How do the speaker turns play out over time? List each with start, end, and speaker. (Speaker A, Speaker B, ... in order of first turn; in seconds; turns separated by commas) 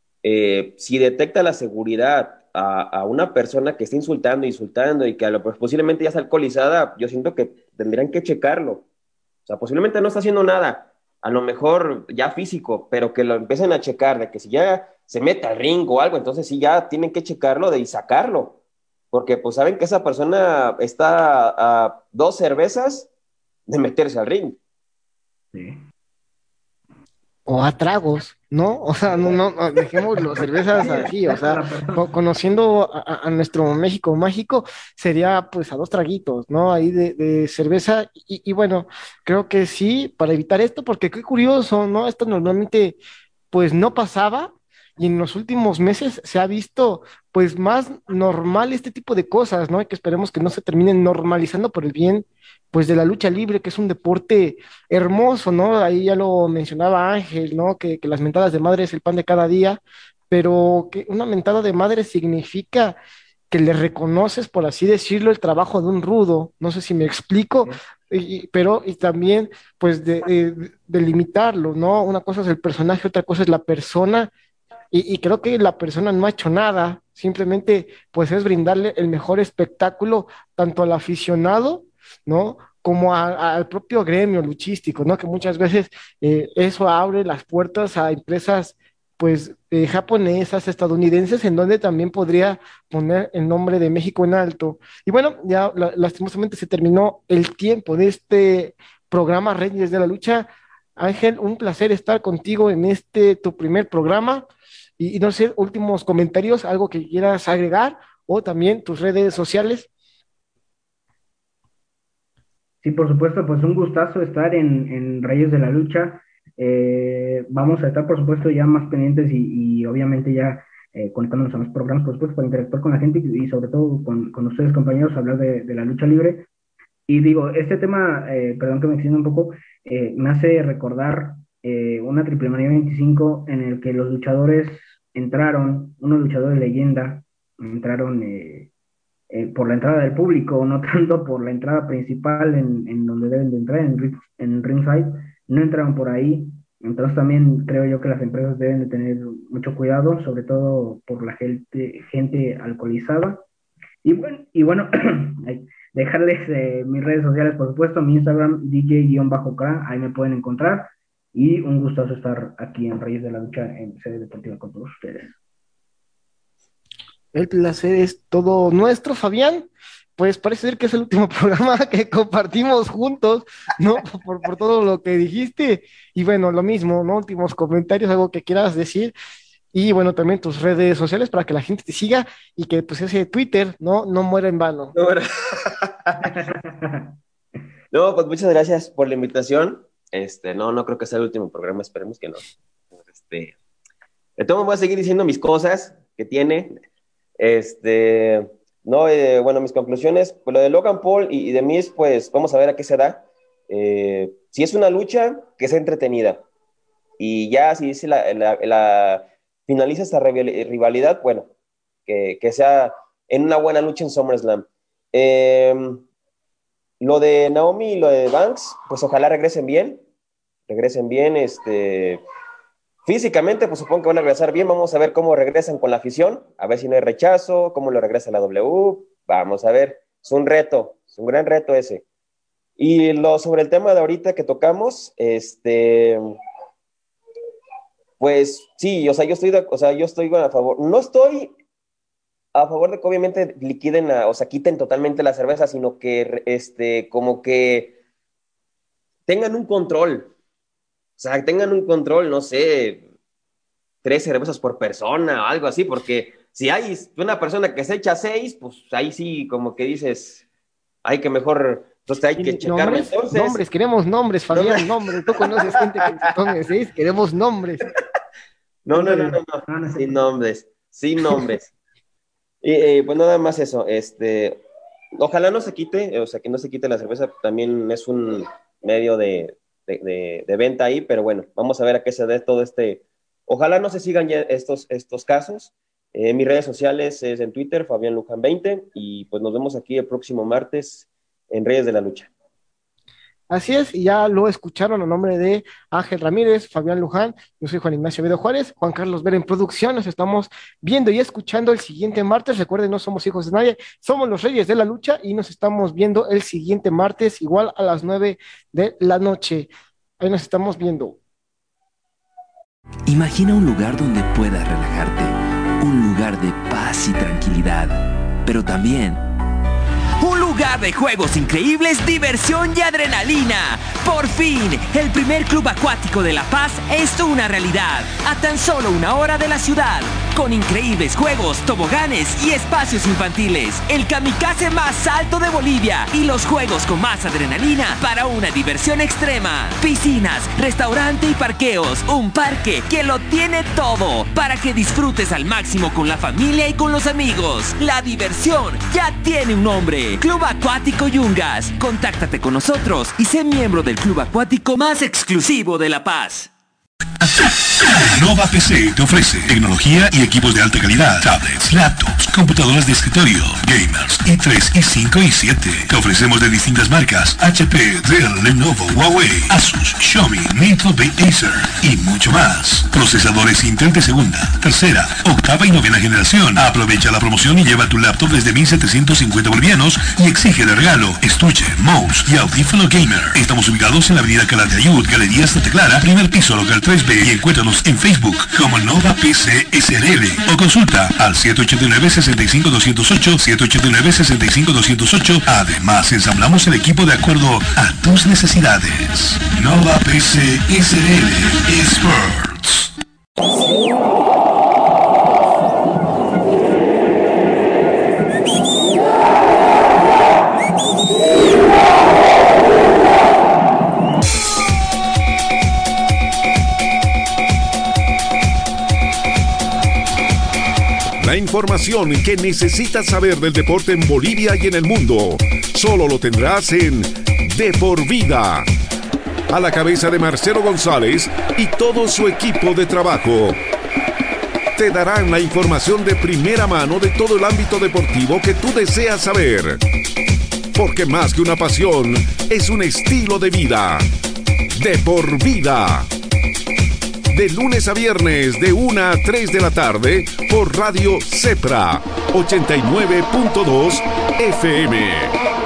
Speaker A: 0.2-8.8, Speaker A: 9.5-18.6, Speaker A: 19.1-23.1, Speaker A: 23.7-24.6, Speaker B: 25.5-25.8, Speaker C: 27.4-43.0, Speaker B: 29.1-32.1, Speaker C: 43.5-63.0, Speaker C: 63.5-74.3, Speaker C: 74.9-109.9, Speaker B: 112.8-126.5, Speaker B: 127.1-138.7, Speaker B: 139.3-153.4, Speaker B: 154.0-165.3, Speaker C: 167.3-179.1, Speaker C: 179.7-184.9, Speaker A: 184.9-186.3, Speaker B: 186.2-187.1, Speaker A: 187.9-192.4, Speaker A: 193.0-193.5, Speaker A: 194.4-196.8, Speaker A: 197.4-206.4, Speaker A: 207.2-211.5, Speaker A: 212.1-216.0, Speaker A: 217.0-220.0, Speaker A: 220.7-222.2, Speaker A: 223.0-232.0, Speaker A: 232.8-236.3, Speaker A: 238.2-241.5, Speaker A: 242.5-248.0, Speaker A: 249.3-250.3, Speaker A: 251.2-253.0, Speaker A: 254.0-260.4, Speaker A: 261.0-263.6, Speaker C: 262.3-267.8, Speaker A: 264.5-266.1, Speaker A: 268.8-271.7, Speaker B: 268.9-270.2, Speaker A: 272.6-274.6, Speaker A: 275.1-292.3, Speaker C: 293.5-311.2, Speaker D: 313.1-319.2, Speaker D: 320.2-356.5, Speaker E: 357.2-402.9, Speaker F: 421.2-428.7, Speaker F: 429.5-433.6, Speaker F: 434.8-439.8, Speaker F: 440.7-444.1, Speaker F: 444.8-446.1, Speaker F: 447.3-455.3